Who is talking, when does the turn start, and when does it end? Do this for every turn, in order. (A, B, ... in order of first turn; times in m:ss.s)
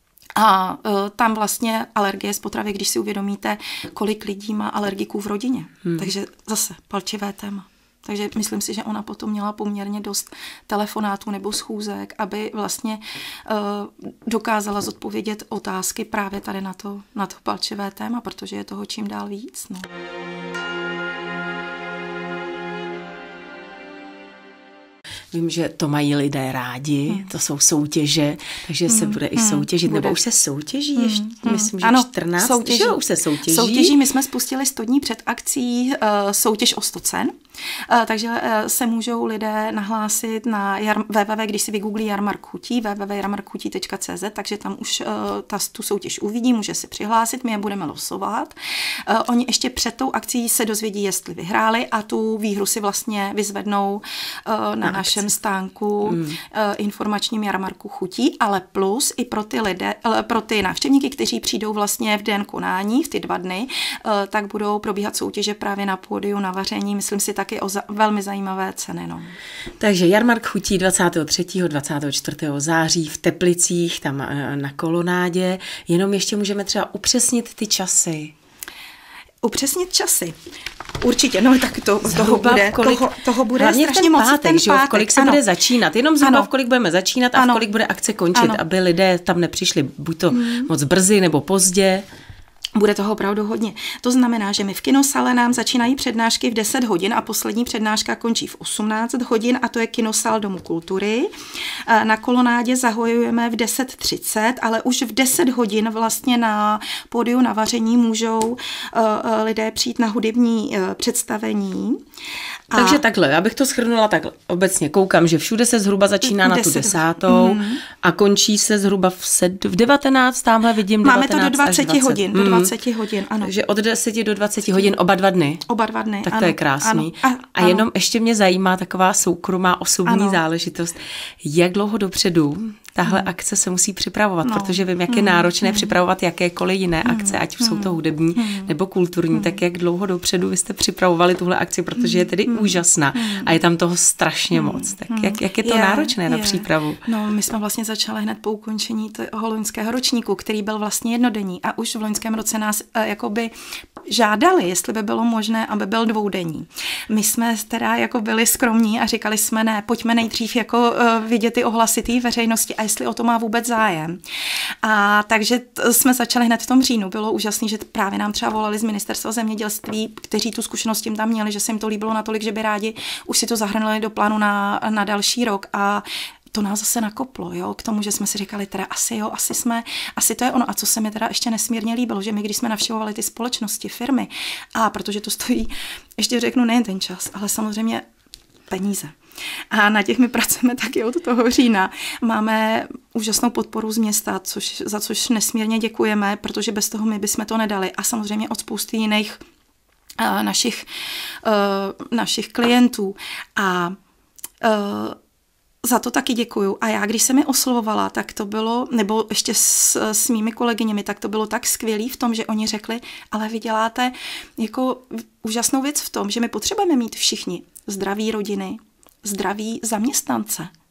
0:00.4-0:19.9 A
0:25.3-0:34.0 B
0:28.9-0:30.2 A
0:31.0-0:37.4 A
0:37.9-0:48.6 A
0:49.1-1:09.3 A
0:54.8-0:55.3 B
0:56.0-0:56.4 B
1:09.8-1:18.3 B
1:19.4-1:20.4 A
1:21.0-1:25.4 A
1:22.0-1:32.0 B
1:26.2-1:26.5 A
1:27.3-1:27.7 A
1:28.3-1:28.6 A
1:30.3-1:30.7 A
1:32.8-1:41.3 A
1:41.9-1:52.0 A
1:52.7-1:53.0 A
1:52.8-2:02.7 B
1:56.2-1:57.8 A
2:01.0-2:03.5 A
2:03.4-2:05.6 B
2:04.6-2:04.9 A
2:05.7-2:07.9 A
2:06.2-2:27.0 B
2:10.1-2:10.4 A
2:13.0-2:13.3 A
2:14.4-2:16.0 A
2:17.0-2:18.7 A
2:19.3-2:19.6 A
2:22.0-2:23.6 A
2:24.5-2:33.5 A
2:34.1-2:44.2 A
2:44.8-3:08.1 A
3:08.7-3:09.2 A
3:09.7-3:19.4 A
3:20.2-3:20.9 A
3:21.4-3:24.0 A
3:24.6-3:25.2 A
3:25.8-3:40.7 A